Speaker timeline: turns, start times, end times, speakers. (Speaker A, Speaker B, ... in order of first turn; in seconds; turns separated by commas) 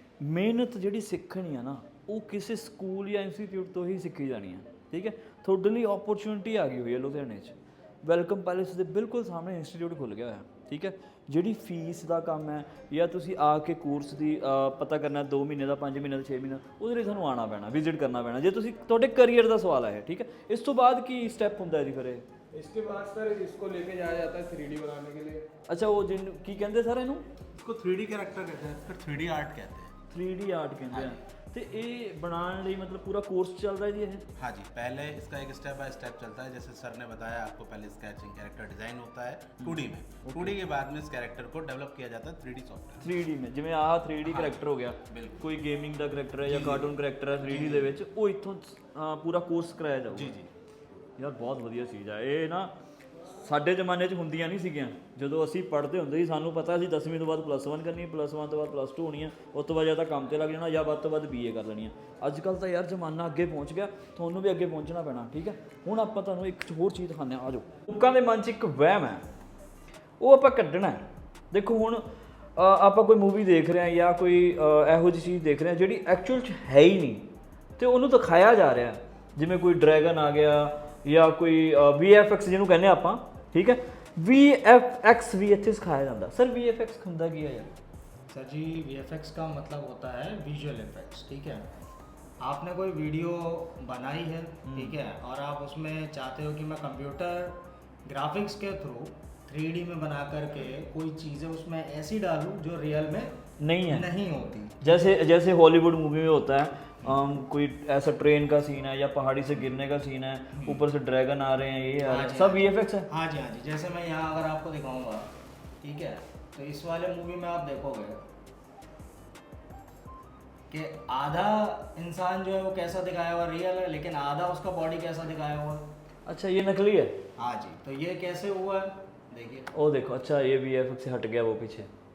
Speaker A: 0.2-22.2, Speaker B: 22.5-25.5, Speaker A: 25.7-27.2, Speaker C: 27.7-29.9, Speaker D: 29.0-29.6, Speaker A: 30.1-34.2, Speaker D: 34.4-43.0, Speaker A: 39.6-40.6, Speaker A: 43.0-50.4, Speaker C: 46.5-48.0, Speaker A: 51.2-52.7, Speaker A: 53.3-69.2, Speaker A: 70.2-87.7, Speaker C: 88.3-91.7, Speaker C: 92.4-104.8, Speaker A: 94.7-95.0, Speaker A: 103.6-104.1, Speaker A: 104.8-113.1, Speaker C: 110.5-110.8, Speaker C: 112.0-115.3, Speaker C: 115.8-118.2, Speaker C: 120.7-125.9, Speaker A: 126.3-127.2, Speaker C: 127.4-129.7, Speaker A: 129.7-131.9